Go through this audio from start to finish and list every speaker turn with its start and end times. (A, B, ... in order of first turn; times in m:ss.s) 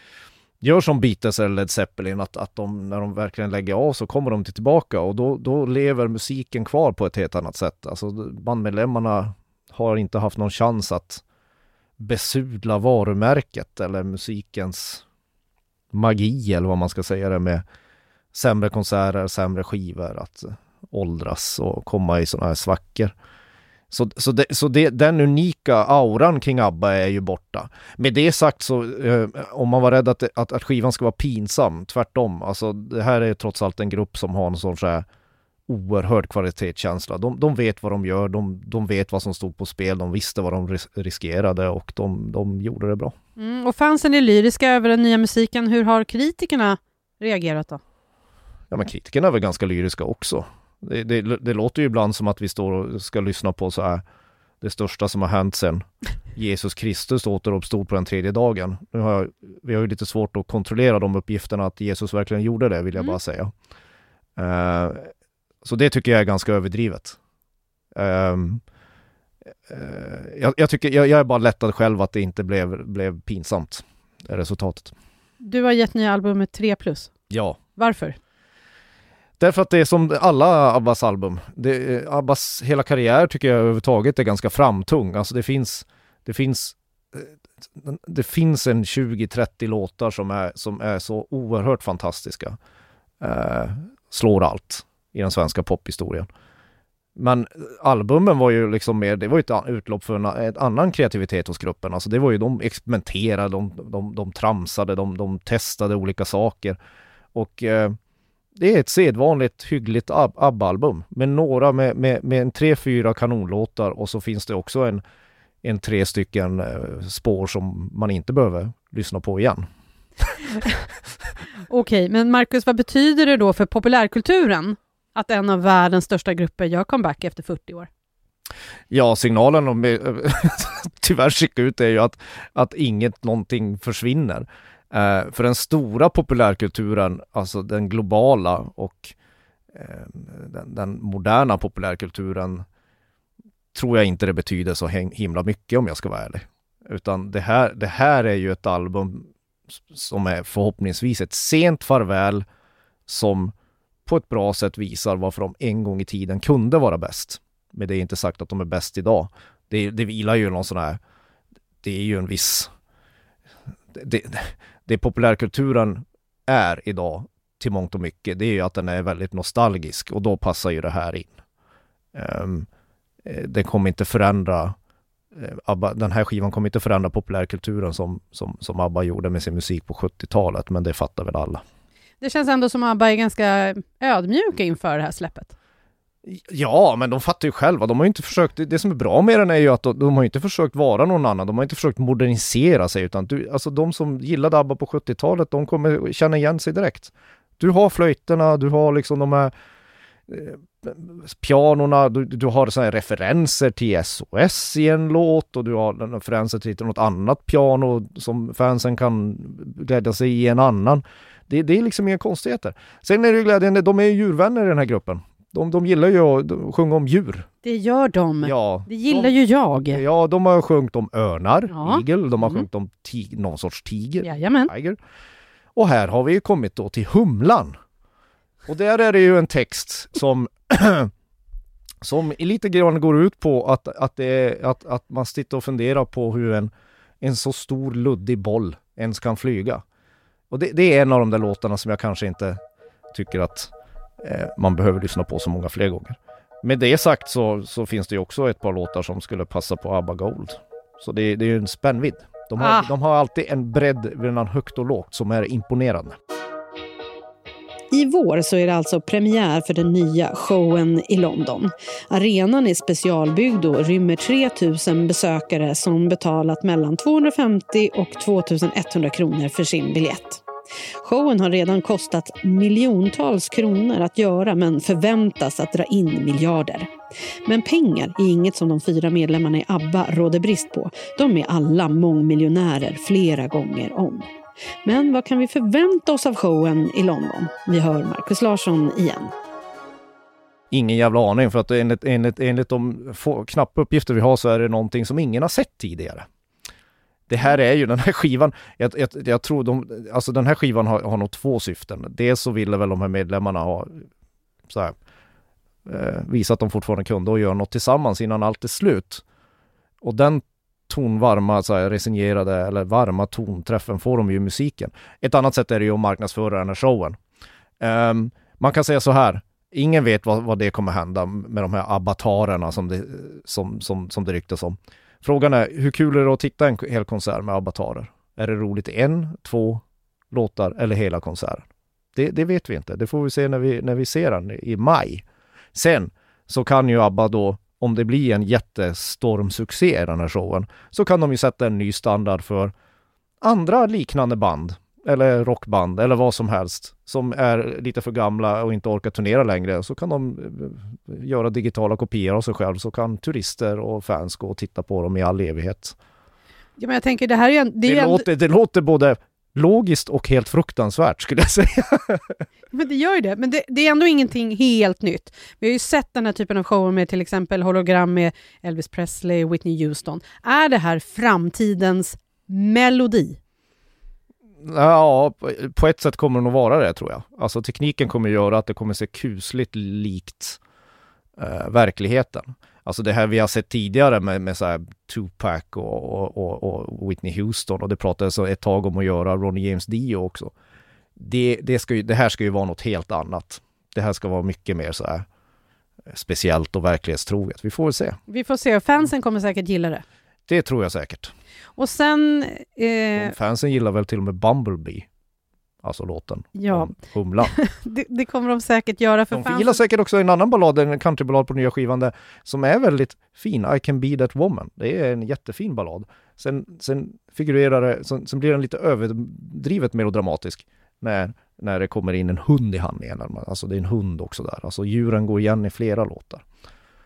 0:00.6-0:11.2 A
0:12.0-0:15.0 A
0:15.9-0:17.6 A
0:18.3-0:23.1 A
0:23.9-0:35.0 A
0:35.7-0:43.1 A
0:43.4-0:47.8 B
0:48.7-0:54.0 A
0:54.6-1:03.5 A
1:04.4-1:05.1 A
1:05.6-1:07.2 A
1:07.9-1:08.6 A
1:09.7-1:14.9 A
1:15.4-1:17.1 B
1:17.3-1:17.6 A
1:17.8-1:18.2 B
1:19.4-1:32.6 A
1:33.2-1:36.3 A
1:37.2-1:46.8 A
1:47.3-1:47.9 A
1:48.6-1:55.0 A
1:55.6-1:59.6 A
2:01.7-2:07.9 B
2:08.9-2:19.1 A
2:19.7-2:22.6 A
2:23.7-2:32.4 A
2:33.1-2:33.5 A
2:34.0-2:41.0 A
2:41.8-2:42.7 A
2:43.9-2:51.4 A
2:52.1-2:52.7 A
2:53.2-2:54.7 A
2:55.3-3:01.6 A
3:02.2-3:05.5 B
3:06.2-3:19.5 A
3:20.3-3:37.5 A
3:37.6-3:40.0 B
3:38.4-3:39.4 A
3:39.9-3:45.0 A
3:41.7-3:42.6 B
3:44.2-3:44.7 B
3:45.7-3:47.7 A
3:48.7-3:51.1 A
3:52.0-3:59.8 A
4:00.5-4:02.6 A
4:03.1-4:16.1 A
4:12.6-4:12.9 B
4:17.9-4:30.4 B
4:31.0-4:36.9 B
4:37.4-4:44.3 B
4:44.8-4:49.3 B
4:50.7-4:56.2 A
4:57.3-5:04.0 A
5:04.7-5:04.9 A
5:05.8-5:09.2 A
5:10.0-5:17.2 A
5:17.8-5:42.7 A
5:43.4-5:55.9 A
5:56.8-5:58.2 B
5:57.8-6:02.3 A
6:02.7-6:13.4 B
6:14.6-6:20.6 A
6:21.4-6:30.5 A
6:31.2-6:35.2 A
6:36.1-6:38.2 A
6:38.3-6:40.0 B
6:40.5-6:41.3 A
6:41.8-6:43.3 B
6:43.2-6:45.1 A
6:45.8-6:47.5 A
6:46.6-6:46.9 B
6:47.4-6:49.8 B
6:49.3-7:06.4 A